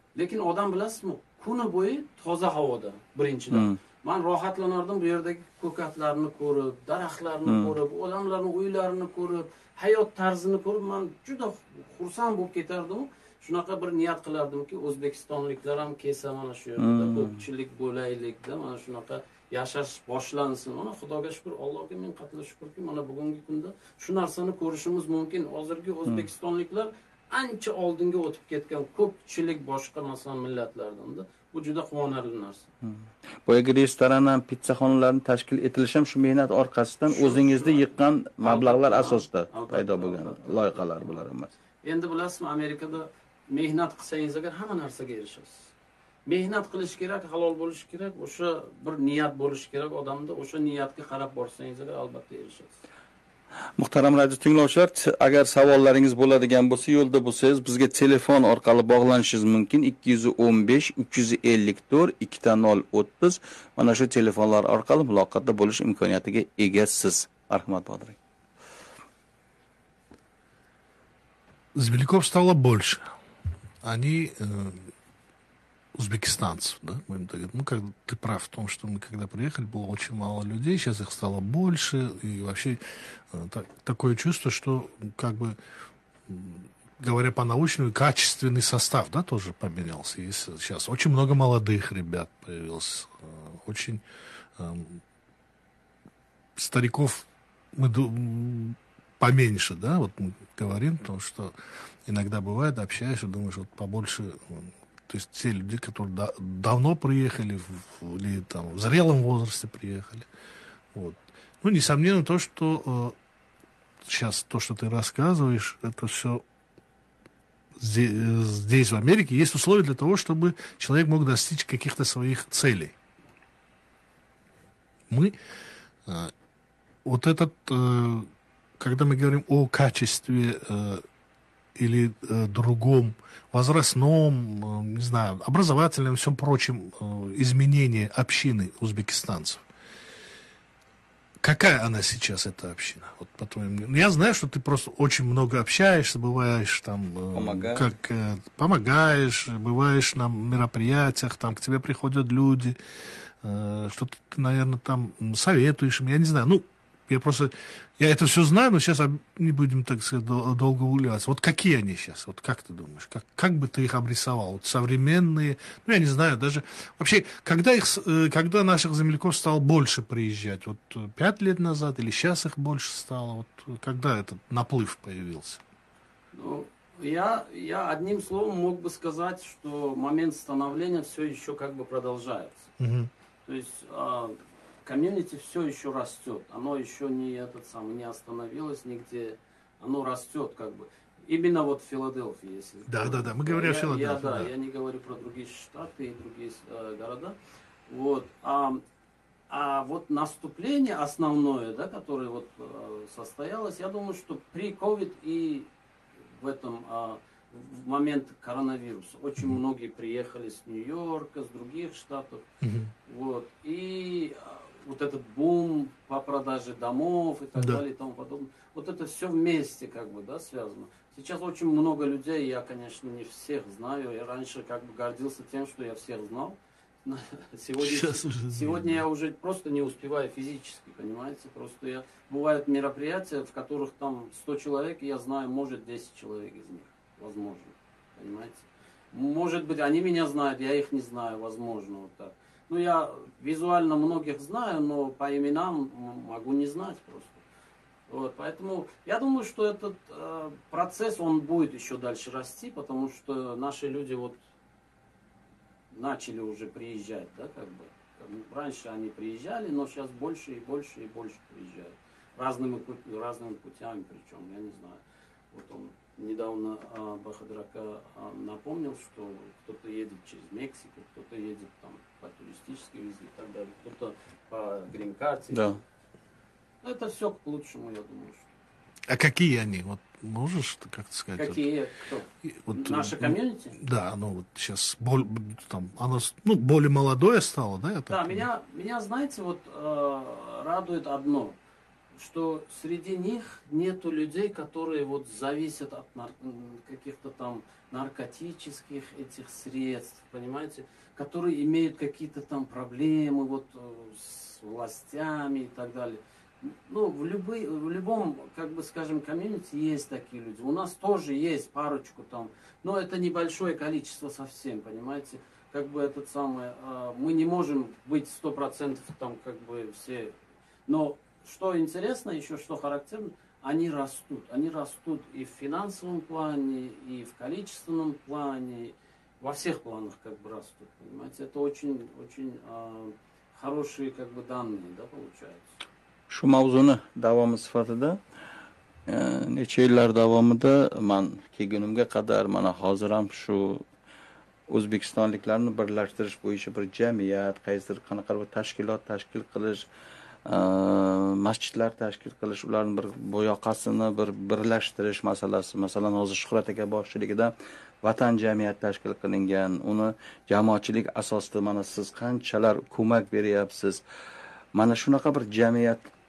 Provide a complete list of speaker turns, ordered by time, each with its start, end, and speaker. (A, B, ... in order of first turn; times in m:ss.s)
0:00.1-0:32.7 A
0:03.5-0:03.8 B
0:07.5-0:07.7 B
0:16.8-0:17.4 B
0:32.8-0:41.5 B
0:37.1-0:37.8 A
0:38.4-0:40.9 A
0:41.8-0:45.7 A
0:46.3-0:52.8 A
0:53.8-1:08.2 B
1:11.7-1:13.1 C
1:13.8-1:14.9 C
1:16.0-1:25.6 C
1:26.3-1:34.0 C
1:34.6-1:35.0 C
1:36.6-1:41.5 C
1:42.0-1:50.3 C
1:50.9-1:53.2 C
1:54.0-1:56.4 C
1:57.8-2:02.9 C
2:05.1-2:05.4 C
2:06.0-2:06.3 C
2:07.0-2:11.0 C
2:11.8-2:19.6 C
2:21.4-2:32.8 C
2:27.3-2:27.8 B
2:33.4-2:55.6 C
2:56.3-3:02.7 A
3:02.8-3:03.1 C
3:03.4-3:17.3 A
3:12.9-3:14.5 C
3:17.9-3:18.8 A
3:19.5-3:25.7 A
3:26.3-3:32.4 A
3:32.6-3:32.9 C
3:33.1-4:07.4 A
3:47.8-3:49.0 C
4:08.1-4:14.4 A
4:15.9-4:25.0 A
4:25.5-4:35.8 A
4:35.5-4:35.8 B
4:36.8-4:38.5 A
4:39.1-4:41.6 C
4:41.4-4:43.8 A
4:42.4-4:48.4 C
4:48.1-4:51.5 A
4:52.2-5:20.3 A
5:20.9-5:35.6 A
5:36.3-5:38.2 B
5:39.1-5:43.8 B
5:44.7-5:49.9 B
5:50.5-6:04.0 B
6:04.7-6:06.1 B